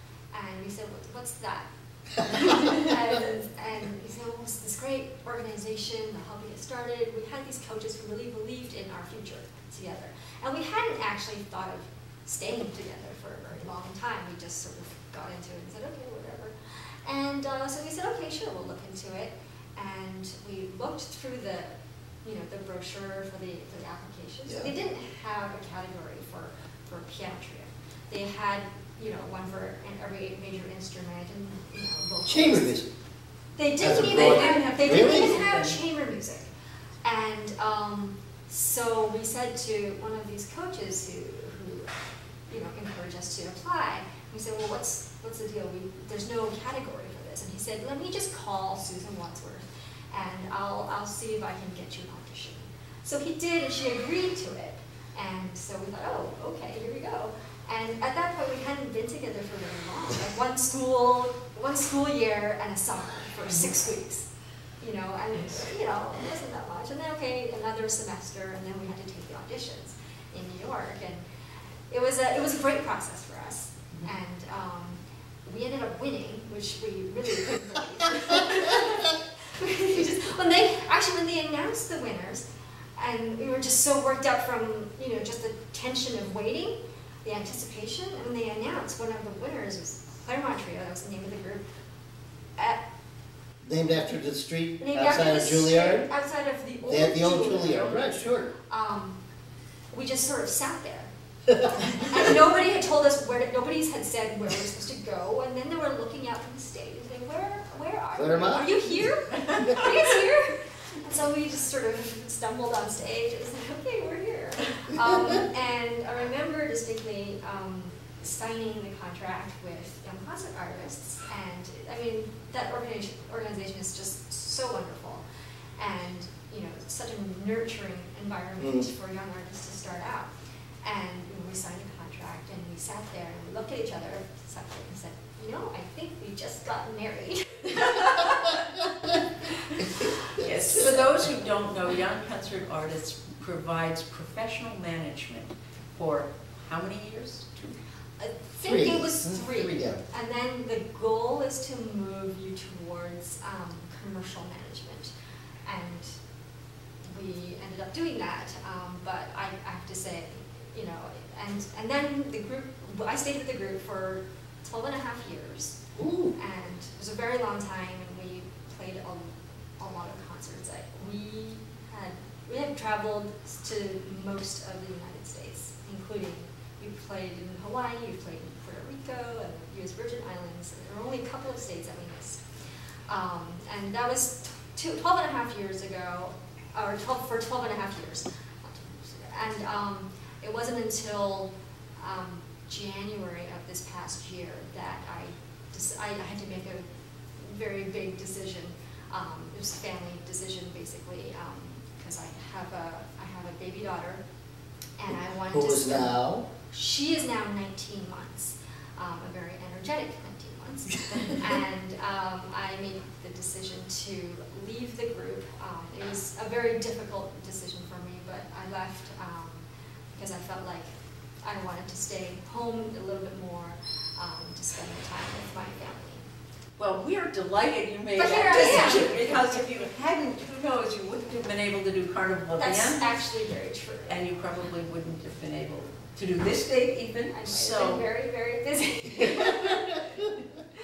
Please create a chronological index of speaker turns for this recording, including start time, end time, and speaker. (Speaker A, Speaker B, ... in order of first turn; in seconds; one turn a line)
Speaker A: 0.3-32.7
Speaker B: 24.5-24.7
Speaker B: 32.3-32.9
Speaker A: 33.6-36.5
Speaker B: 33.8-35.4
Speaker C: 34.0-35.8
Speaker A: 37.0-41.9
Speaker A: 42.5-64.3
Speaker A: 64.8-71.2
Speaker A: 71.9-91.7
Speaker B: 93.6-96.1
Speaker A: 94.8-99.2
Speaker B: 96.9-98.5
Speaker A: 99.9-101.1
Speaker A: 101.7-125.2
Speaker B: 108.1-108.9
Speaker C: 109.3-110.2
Speaker A: 125.8-130.3
Speaker B: 128.6-128.9
Speaker A: 130.8-138.8
Speaker C: 137.8-138.6
Speaker C: 139.8-147.8
Speaker B: 139.8-141.1
Speaker A: 140.0-140.8
Speaker A: 148.2-155.1
Speaker B: 148.6-150.0
Speaker A: 155.7-156.2
Speaker A: 157.1-165.8
Speaker B: 165.9-166.3
Speaker A: 166.3-182.4
Speaker A: 183.1-204.2
Speaker A: 205.0-220.9
Speaker B: 205.5-206.5
Speaker A: 221.4-226.3
Speaker C: 226.8-233.1
Speaker A: 228.2-229.8
Speaker A: 232.6-234.2
Speaker C: 234.1-238.1
Speaker A: 237.3-240.1
Speaker B: 239.3-240.3